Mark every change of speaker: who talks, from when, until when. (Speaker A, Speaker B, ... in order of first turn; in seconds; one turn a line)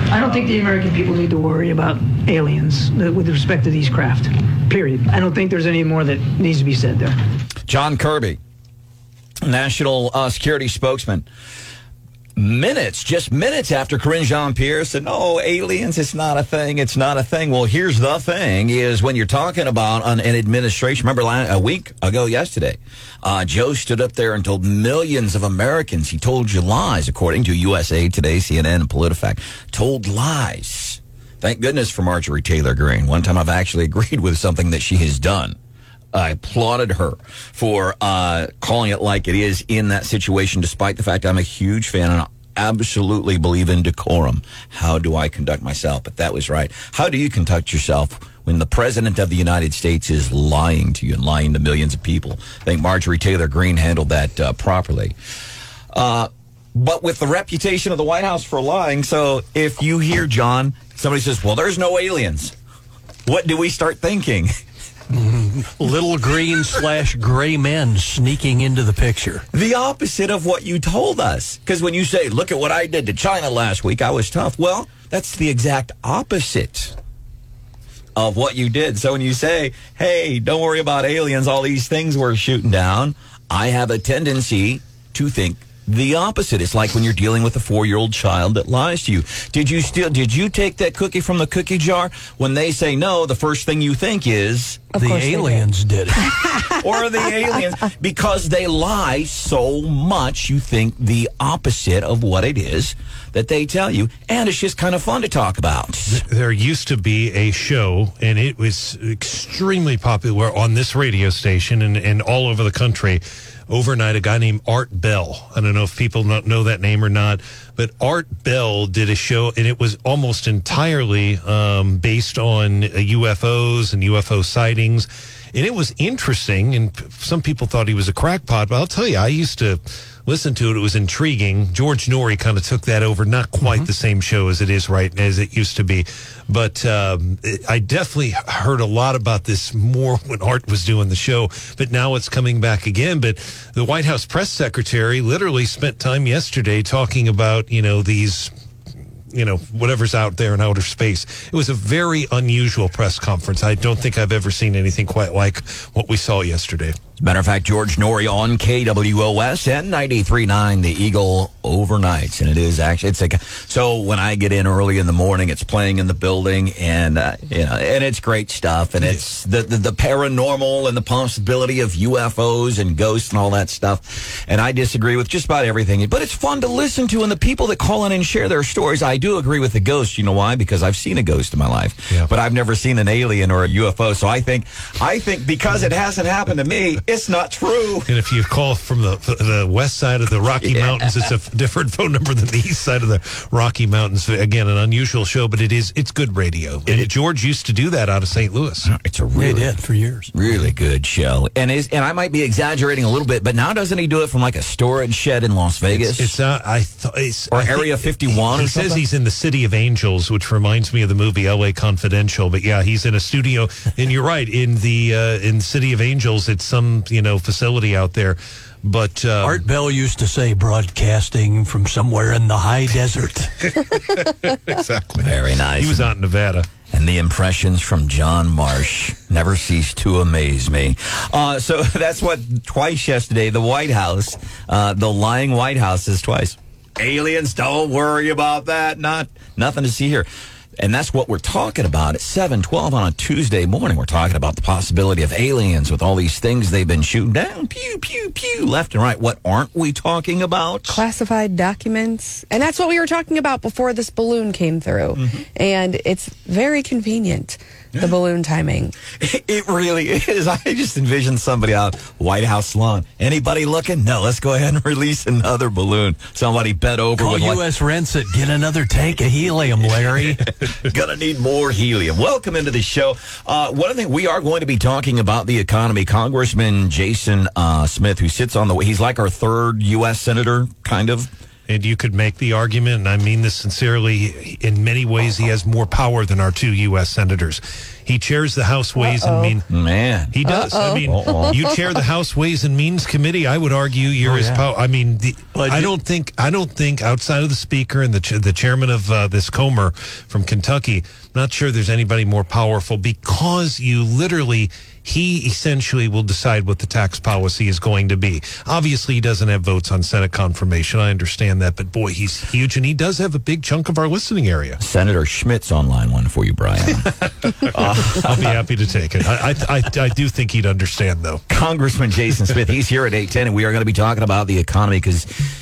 Speaker A: 0.1-7.2
Speaker B: 7.7-8.4
Speaker B: 9.4-11.3
Speaker B: 12.4-35.6
Speaker B: 36.1-55.2
Speaker B: 55.9-62.5
Speaker B: 63.2-64.5
Speaker C: 65.1-69.5
Speaker B: 69.5-77.0
Speaker B: 78.2-94.9
Speaker D: 95.0-95.7
Speaker C: 95.0-96.4
Speaker D: 96.2-96.8
Speaker B: 96.8-106.2
Speaker E: 106.2-148.5
Speaker C: 133.6-133.9
Speaker E: 149.3-156.9
Speaker B: 157.2-188.1
Speaker E: 188.1-198.9
Speaker B: 190.6-191.1
Speaker B: 198.9-199.7
Speaker C: 199.3-200.3
Speaker B: 200.3-206.3
Speaker E: 205.9-219.7
Speaker B: 207.5-209.0
Speaker C: 219.4-223.6
Speaker E: 224.1-226.7
Speaker B: 225.2-226.1
Speaker B: 226.9-240.3
Speaker B: 240.8-251.0
Speaker D: 250.9-259.0
Speaker B: 255.2-255.4
Speaker B: 259.1-267.6
Speaker C: 267.2-270.5
Speaker B: 270.1-281.3
Speaker E: 281.7-289.6
Speaker D: 289.0-289.6
Speaker B: 289.7-291.6
Speaker E: 290.3-314.8
Speaker D: 290.4-291.8
Speaker C: 294.2-294.7
Speaker C: 295.5-296.0
Speaker B: 314.8-318.6
Speaker E: 317.5-321.4
Speaker B: 321.5-325.4